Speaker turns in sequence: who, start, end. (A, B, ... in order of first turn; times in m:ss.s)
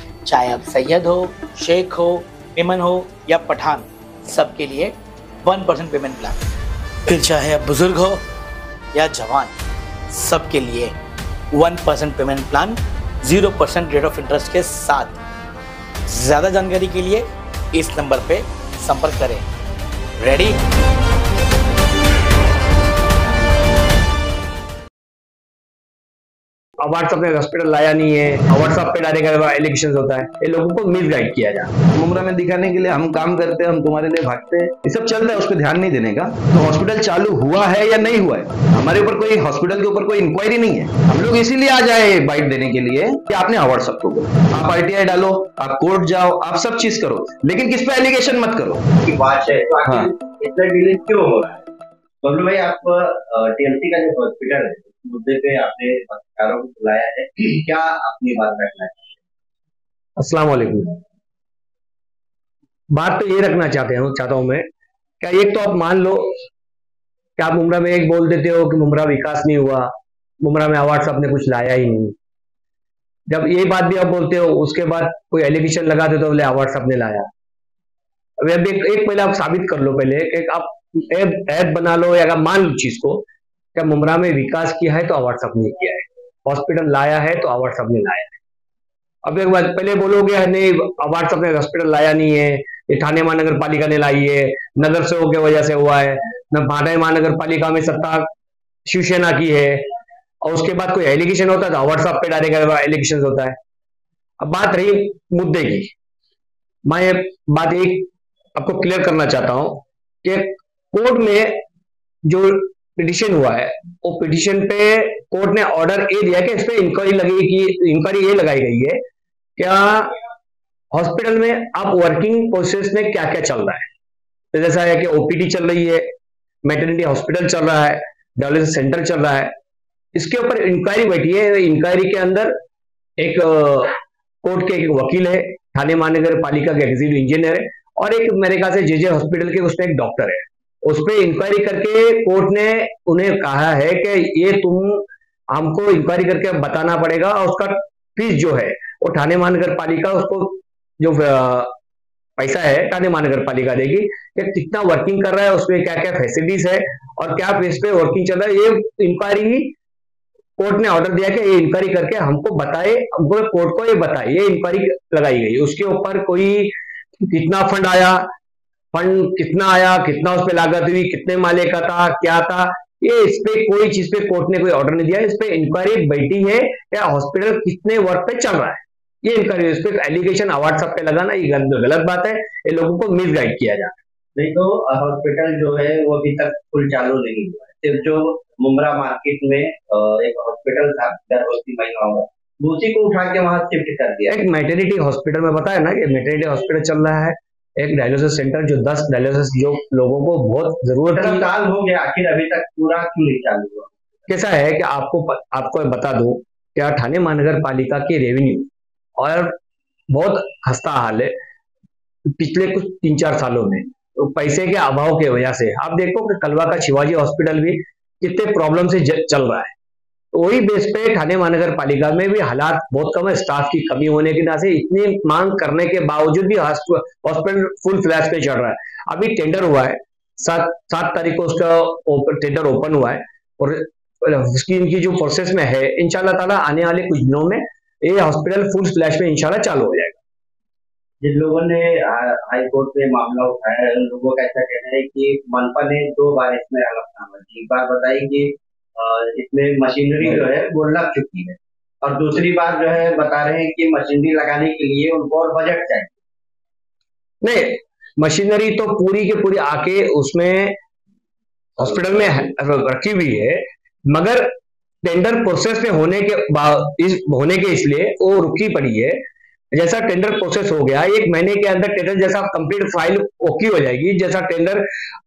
0:00.2-0:06.4 A
0:07.1-0:08.2 A
0:08.9-0:09.5 A
0:10.1-0:10.9 A
0:11.5-0:15.2 A
0:16.1-0:19.4 A
0:20.2-0:20.6 A
0:26.8-0:31.7 B
0:32.0-0:48.8 C
0:49.0-0:51.7 D
0:49.8-0:50.1 C
0:52.2-0:59.2 D
1:00.2-1:01.0 B
1:02.9-1:04.7 B
1:05.2-1:06.4 B
1:07.4-1:12.2 B
1:13.3-1:17.3 B
1:18.4-1:28.4 B
1:29.2-1:38.3 B
1:38.8-1:39.8 B
1:40.4-1:43.6 B
1:44.4-1:45.9 B
1:46.9-1:51.5 B
1:52.2-1:59.0 B
1:59.6-2:00.1 B
2:00.9-2:03.9 B
2:04.5-2:06.1 B
2:06.6-2:09.5 B
2:10.1-2:12.5 B
2:13.2-2:31.7 B
2:32.4-2:39.8 B
2:40.6-2:48.2 B
2:48.9-3:04.0 B
3:04.4-3:14.4 D
3:14.3-3:21.5 B
3:21.2-3:24.0 D
3:24.3-3:29.6 B
3:30.1-3:31.3 B
3:32.2-3:39.8 B
3:40.3-4:00.2 B
4:01.2-4:16.1 D
4:17.4-4:20.8 B
4:21.8-4:24.5 B
4:25.0-4:29.2 B
4:29.7-4:34.8 B